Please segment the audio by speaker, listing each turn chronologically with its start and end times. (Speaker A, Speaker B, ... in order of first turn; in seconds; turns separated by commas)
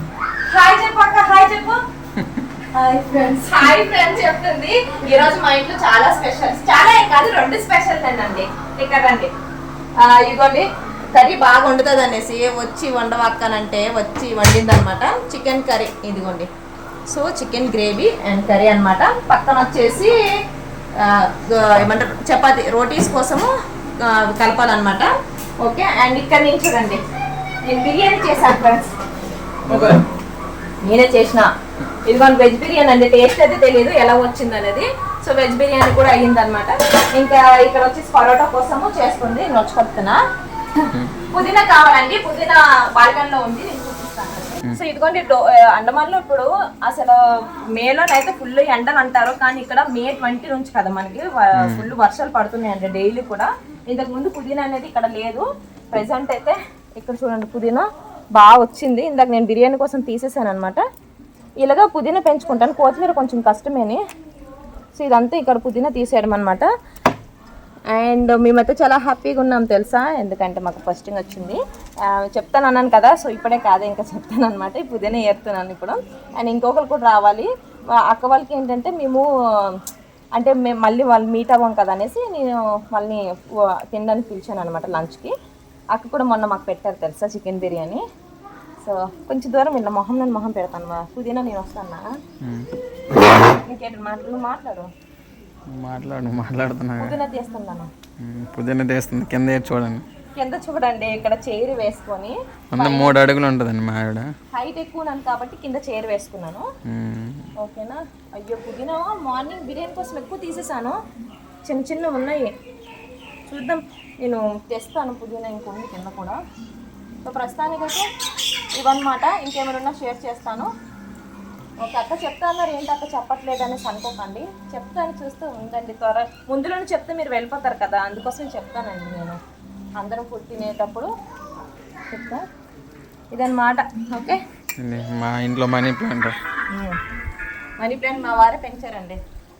Speaker A: 0.5-1.8, Speaker A: 2.7-9.3, Speaker A: 10.0-16.5, Speaker A: 17.1-20.1, Speaker A: 21.0-27.0, Speaker A: 27.6-28.9, Speaker B: 29.7-30.0, Speaker A: 29.7-30.0, Speaker A: 30.8-31.5, Speaker A: 32.0-40.2, Speaker A: 41.3-47.2, Speaker A: 47.7-60.8, Speaker B: 51.6-51.9, Speaker A: 61.6-64.0, Speaker A: 64.9-66.7, Speaker A: 67.9-77.5, Speaker A: 78.0-79.2, Speaker A: 80.3-83.2, Speaker A: 83.9-85.3, Speaker A: 85.9-88.0, Speaker A: 88.8-92.1, Speaker B: 92.4-92.7, Speaker A: 93.4-94.9, Speaker B: 95.7-97.2, Speaker A: 97.0-97.9, Speaker B: 98.2-100.0, Speaker A: 100.3-103.2, Speaker B: 102.7-104.3, Speaker A: 104.5-106.7, Speaker B: 106.9-107.5, Speaker A: 107.6-111.0, Speaker A: 111.6-112.5, Speaker A: 113.5-116.4, Speaker A: 117.2-118.0, Speaker A: 118.7-120.7, Speaker A: 121.8-129.4, Speaker A: 130.0-131.1, Speaker A: 132.1-132.4, Speaker A: 133.3-134.4, Speaker B: 134.8-136.3, Speaker A: 136.7-137.0, Speaker A: 137.8-139.2